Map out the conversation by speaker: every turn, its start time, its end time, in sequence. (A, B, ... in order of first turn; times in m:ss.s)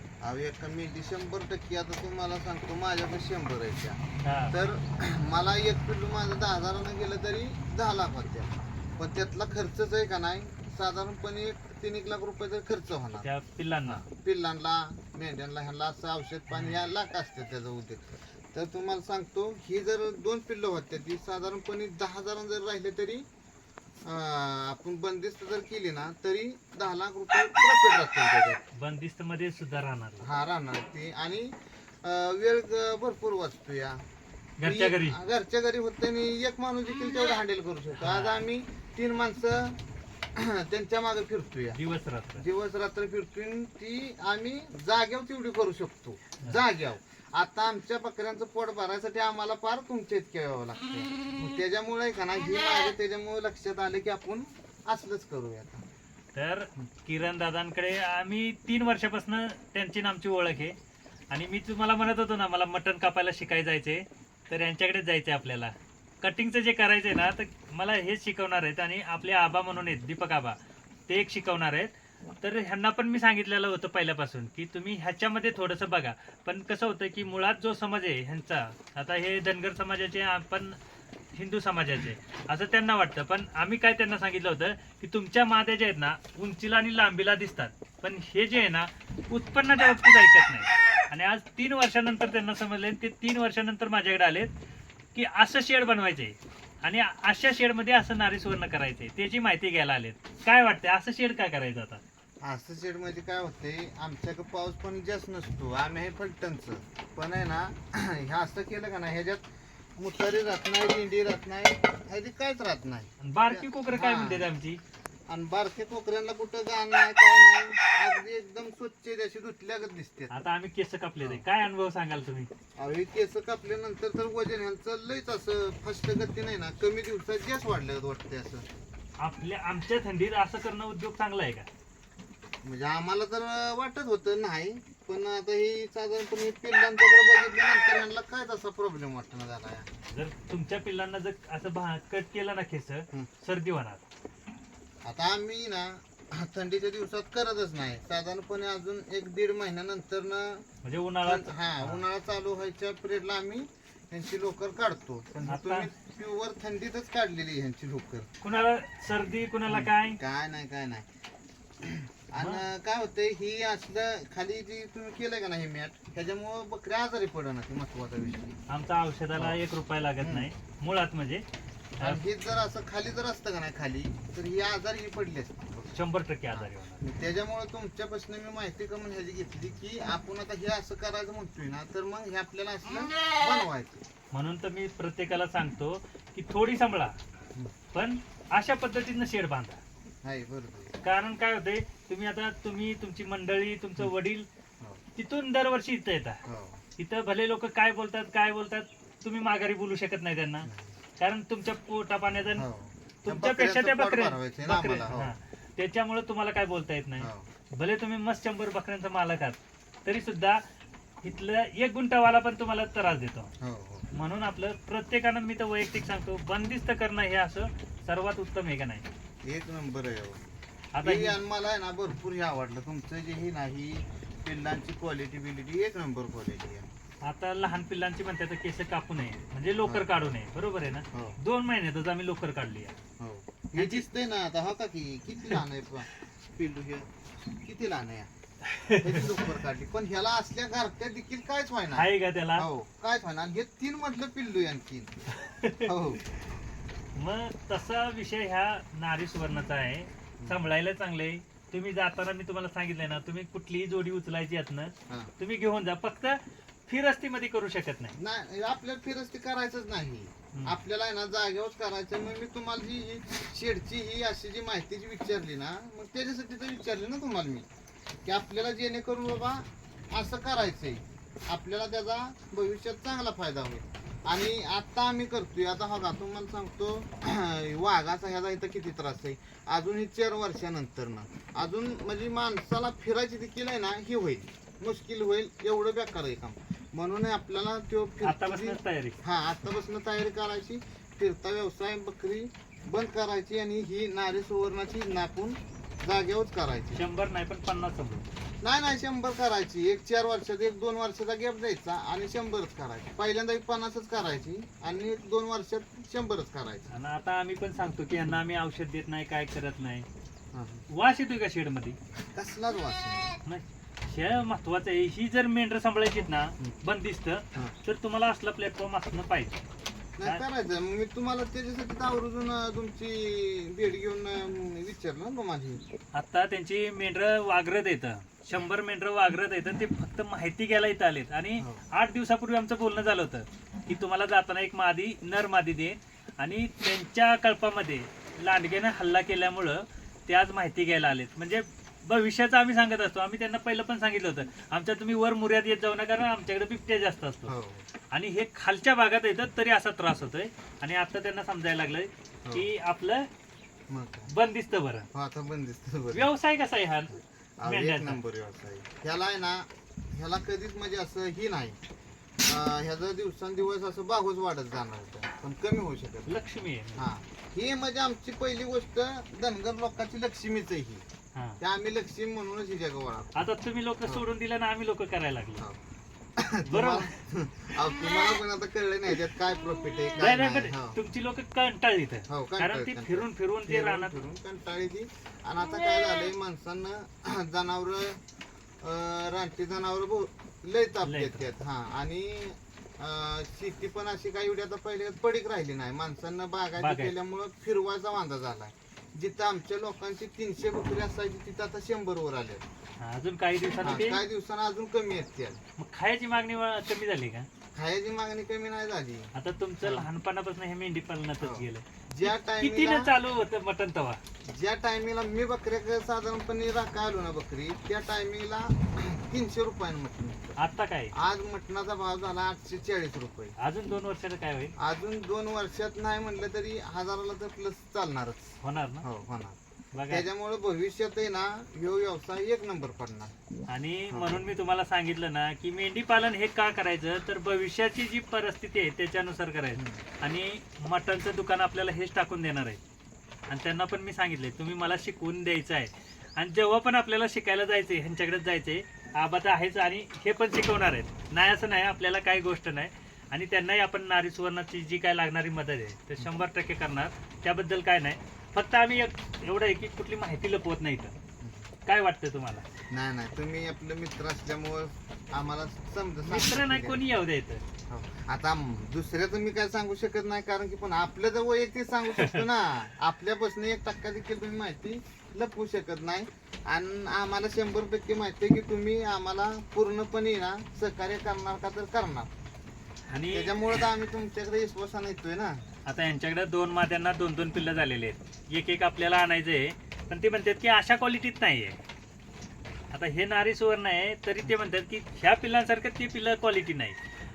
0:00.2-0:04.0 A
0:04.2-0:04.5 B
0:04.5-0:13.3 A
0:13.2-0:14.0 B
0:13.9-0:23.2 A
0:16.5-0:16.8 B
0:24.0-0:28.6 A
0:28.7-0:30.3 B
0:30.2-0:34.0 A
0:34.6-0:35.2 B
0:34.6-0:39.8 A
0:38.0-0:38.4 B
0:40.3-0:41.8 A
0:41.7-0:42.5 B
0:42.4-0:55.8 A
0:56.3-1:00.8 B
1:01.3-1:20.8 B
1:21.3-1:34.5 B
1:35.1-1:42.0 B
1:42.4-1:54.4 A
1:53.2-1:54.8 B
1:55.3-2:00.3 A
2:00.3-2:02.5 B
2:02.8-2:08.7 A
2:09.2-2:11.7 B
2:12.6-2:19.9 A
2:20.1-2:24.0 B
2:25.0-2:30.7 A
2:30.8-2:32.0 B
2:31.2-2:38.3 A
2:35.5-2:35.9 B
2:38.4-2:40.2 B
2:39.7-2:41.0 A
2:41.8-2:48.6 A
2:42.4-2:42.7 B
2:48.7-2:51.4 B
2:49.4-2:49.6 A
2:50.2-2:50.5 A
2:52.0-2:56.0 A
2:55.9-2:57.0 B
2:56.5-3:04.0 A
3:04.3-3:07.2 B
3:07.9-3:09.8 B
3:10.2-3:11.0 A
3:11.0-3:14.5 B
3:15.2-3:16.4 B
3:16.4-3:16.8 A
3:17.0-3:22.7 B
3:20.6-3:21.0 A
3:22.6-3:25.3 A
3:23.2-3:30.6 B
3:27.2-3:27.5 A
3:31.2-3:33.5 B
3:33.6-3:34.1 A
3:34.1-3:39.0 B
3:39.4-3:46.9 A
3:40.9-3:41.4 B
3:47.2-3:53.0 B
3:49.8-3:50.1 A
3:53.2-3:58.3 A
3:53.8-3:54.0 B
3:58.6-3:59.4 B
3:58.9-4:05.2 A
4:01.9-4:02.7 B
4:05.4-4:05.9 B
4:05.8-4:06.2 A
4:07.2-4:18.2 B
4:18.2-4:27.7 A
4:20.5-4:20.8 B
4:28.2-4:57.0 A
4:48.2-4:49.2 B
4:56.9-4:58.3 B
4:58.6-5:06.9 A
5:06.9-5:10.1 B
5:10.5-5:10.8 A
5:10.9-5:12.0 B
5:12.3-5:13.4 A
5:13.4-5:19.6 B
5:20.2-5:25.8 A
5:26.1-5:47.5 B
5:47.5-5:47.9 A
5:48.1-5:53.3 B
5:53.9-5:54.3 A
5:54.3-5:55.1 B
5:55.1-5:56.3 A
5:56.1-5:58.2 B
5:57.6-6:01.8 A
6:02.4-6:06.4 A
6:06.3-6:07.1 B
6:07.0-6:11.0 A
6:11.3-6:11.6 B
6:11.6-6:13.5 A
6:13.4-6:15.6 B
6:16.4-6:21.0 A
6:16.7-6:17.2 B
6:20.2-6:24.2 B
6:22.3-6:28.2 A
6:28.8-6:42.6 A
6:31.0-6:31.5 B
6:36.8-6:37.1 B
6:43.0-6:44.2 B
6:43.8-6:45.6 A
6:45.8-6:47.5 B
6:47.8-6:49.3 A
6:49.4-6:54.2 B
6:49.8-6:50.1 A
6:51.4-6:53.1 A
6:54.4-7:00.6 A
7:00.6-7:01.1 B
7:01.1-7:03.6 A
7:03.6-7:04.7 B
7:04.8-7:09.6 A
7:08.6-7:09.0 B
7:09.9-7:10.2 B
7:10.1-7:13.3 A
7:13.7-7:22.8 B
7:14.1-7:14.5 A
7:19.8-7:20.0 A
7:23.5-7:41.2 B
7:41.4-7:41.6 A
7:41.9-7:42.7 B
7:42.9-7:47.0 A
7:46.2-7:47.6 B
7:47.9-8:02.3 A
7:52.2-7:52.4 B
8:03.1-8:03.8 B
8:03.3-8:05.6 A
8:05.9-8:11.8 B
8:12.9-8:17.0 B